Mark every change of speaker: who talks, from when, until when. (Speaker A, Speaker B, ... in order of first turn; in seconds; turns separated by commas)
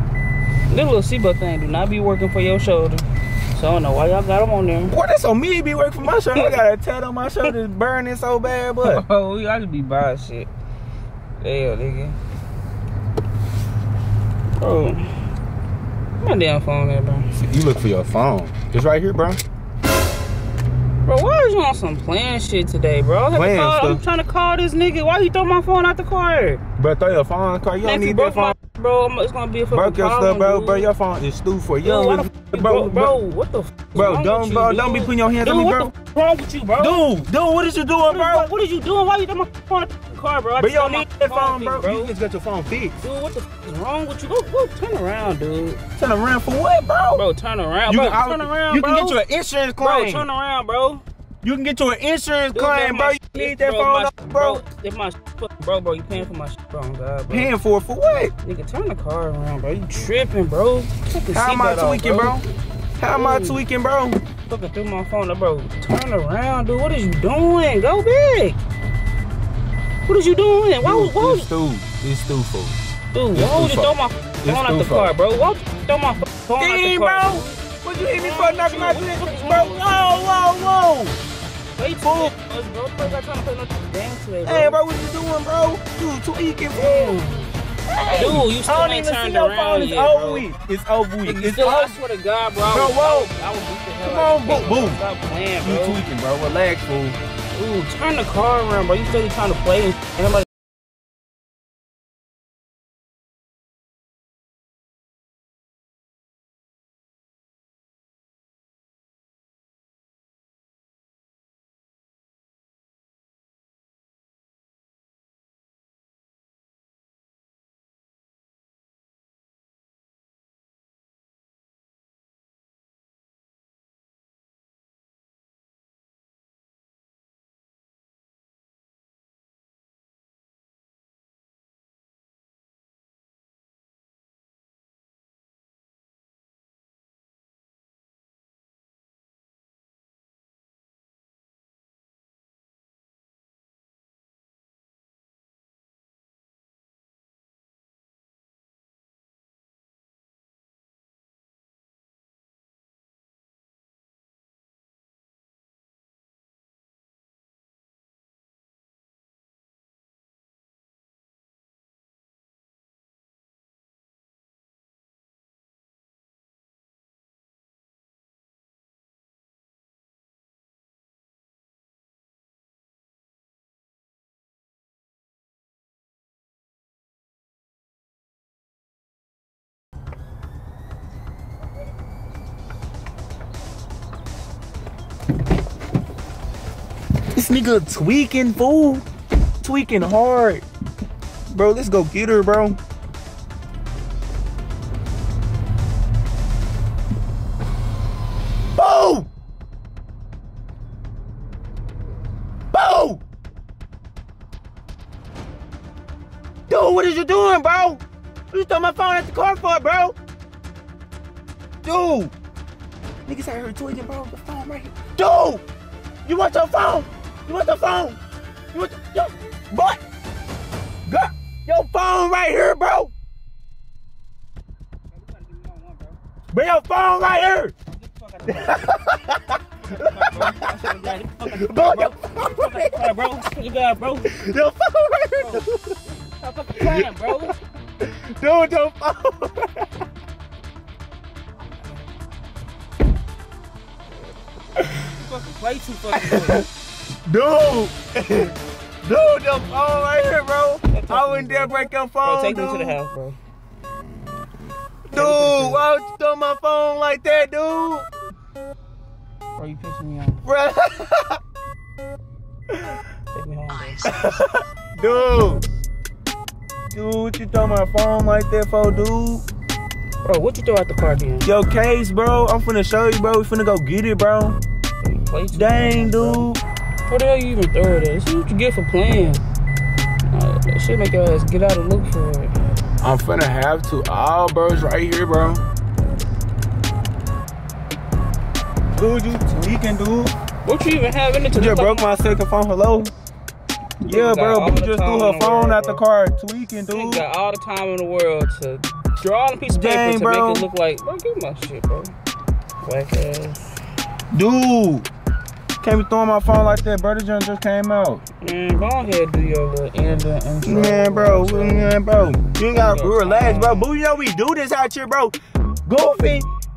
Speaker A: 0.7-4.9, Speaker B: 4.9-9.0, Speaker A: 8.8-10.5, Speaker A: 11.4-12.2, Speaker A: 14.6-15.1, Speaker A: 16.2-17.3, Speaker B: 17.4-19.4, Speaker A: 21.0-26.6, Speaker B: 23.3-24.0, Speaker B: 26.8-28.5, Speaker A: 27.8-30.9, Speaker B: 29.7-33.2, Speaker A: 31.8-37.0, Speaker B: 33.9-35.9, Speaker B: 36.8-38.5, Speaker A: 38.0-42.1, Speaker B: 40.6-43.0, Speaker A: 43.0-45.8, Speaker B: 46.0-47.2, Speaker A: 47.1-49.2, Speaker B: 47.9-50.3, Speaker A: 49.8-51.0, Speaker B: 51.4-54.6, Speaker A: 52.5-57.5, Speaker B: 57.3-58.3, Speaker A: 58.4-62.4, Speaker B: 61.3-62.4, Speaker B: 63.0-64.2, Speaker A: 63.1-63.6, Speaker A: 64.5-68.6, Speaker A: 70.0-71.5, Speaker B: 70.8-72.8, Speaker A: 73.1-79.8, Speaker B: 73.3-75.1, Speaker B: 76.6-81.2, Speaker A: 81.8-84.8, Speaker B: 82.0-82.3, Speaker B: 84.4-87.2, Speaker A: 86.7-87.5, Speaker B: 87.9-92.0, Speaker A: 88.1-90.5, Speaker A: 91.2-96.0, Speaker B: 92.7-93.3, Speaker B: 94.0-95.0, Speaker B: 95.6-97.2, Speaker A: 97.5-100.5, Speaker B: 187.3-189.1, Speaker B: 189.6-190.7, Speaker B: 191.5-192.8, Speaker B: 198.7-199.3, Speaker B: 202.7-203.2, Speaker B: 206.7-210.2, Speaker B: 211.8-212.3, Speaker B: 213.2-215.6, Speaker B: 216.2-218.2, Speaker B: 218.7-220.0, Speaker B: 221.1-223.1, Speaker A: 225.1-226.2, Speaker B: 226.5-227.7, Speaker A: 227.9-228.9, Speaker B: 228.5-233.3, Speaker A: 230.0-234.3, Speaker B: 234.1-236.0, Speaker A: 236.2-237.6, Speaker B: 236.8-239.9, Speaker A: 244.8-246.6, Speaker B: 246.1-246.7, Speaker B: 247.2-253.0, Speaker A: 250.9-253.4, Speaker B: 255.1-258.1, Speaker A: 255.1-255.9, Speaker A: 259.6-260.4, Speaker B: 260.4-261.4, Speaker A: 263.3-264.4, Speaker B: 264.0-265.6, Speaker B: 266.9-269.4, Speaker A: 270.2-271.5, Speaker B: 271.4-274.6, Speaker A: 275.0-276.5, Speaker B: 275.5-276.6, Speaker A: 277.1-279.4, Speaker A: 280.3-282.5, Speaker B: 283.0-285.6, Speaker B: 288.9-290.3, Speaker A: 290.6-292.1, Speaker B: 291.5-293.1, Speaker B: 294.0-297.2, Speaker A: 294.1-296.0, Speaker A: 296.9-302.1, Speaker B: 299.6-300.7, Speaker A: 302.8-303.7, Speaker B: 304.3-305.1, Speaker B: 305.8-308.2, Speaker A: 308.4-312.0, Speaker B: 310.6-316.5, Speaker A: 312.7-313.9